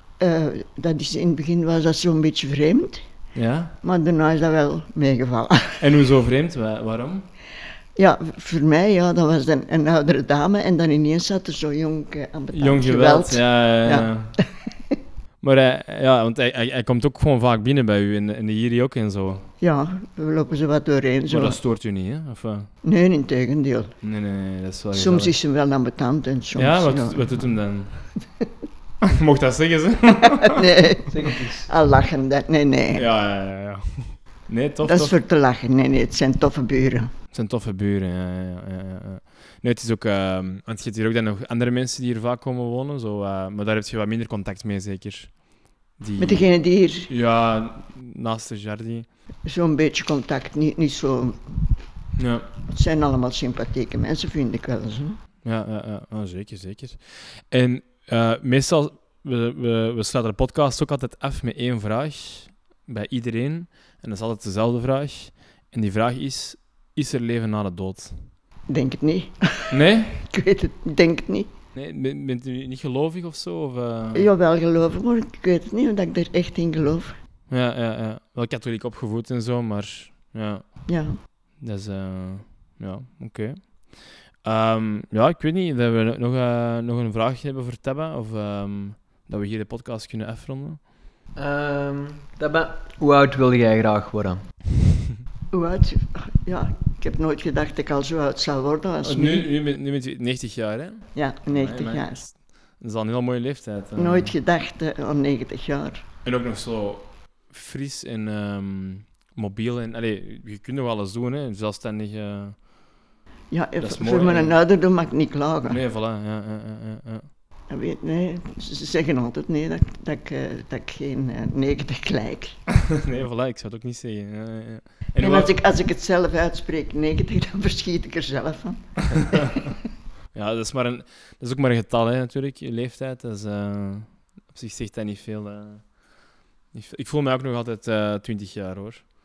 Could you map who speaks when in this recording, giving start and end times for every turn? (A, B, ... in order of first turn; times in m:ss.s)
0:00.2-0:03.1 A
0:03.3-0:03.7 B
0:03.8-0:05.8 A
0:05.8-0:07.3 B
0:08.0-0:14.6 A
0:12.5-0:14.4 B
0:15.4-0:19.5 B
0:19.6-0:21.6 A
0:21.3-0:22.7 B
0:22.8-0:24.0 A
0:24.0-0:25.3 B
0:24.9-0:27.5 A
0:26.6-0:28.2 B
0:29.0-0:30.5 B
0:30.3-0:33.0 A
0:31.1-0:31.7 C
0:32.9-0:35.1 B
0:34.8-0:37.1 A
0:37.3-0:46.5 B
0:46.2-0:47.1 A
0:47.0-0:49.1 B
0:49.4-0:51.7 A
0:52.2-0:52.5 B
0:52.7-0:55.2 A
0:55.4-1:08.3 B
1:08.7-1:11.5 A
1:09.7-1:10.2 B
1:11.7-1:14.3 B
1:14.1-1:17.2 A
1:17.5-1:20.9 B
1:20.9-1:21.2 A
1:21.6-1:30.8 B
1:31.4-1:34.5 C
1:35.5-1:39.5 A
1:39.0-1:44.3 B
1:41.1-1:42.2 A
1:44.0-1:46.0 A
1:46.2-1:52.7 B
1:53.5-1:55.8 A
1:53.8-1:54.6 B
1:55.6-1:57.3 B
1:57.7-2:02.5 A
2:02.9-2:05.5 B
2:05.2-2:09.6 A
2:10.3-2:19.0 B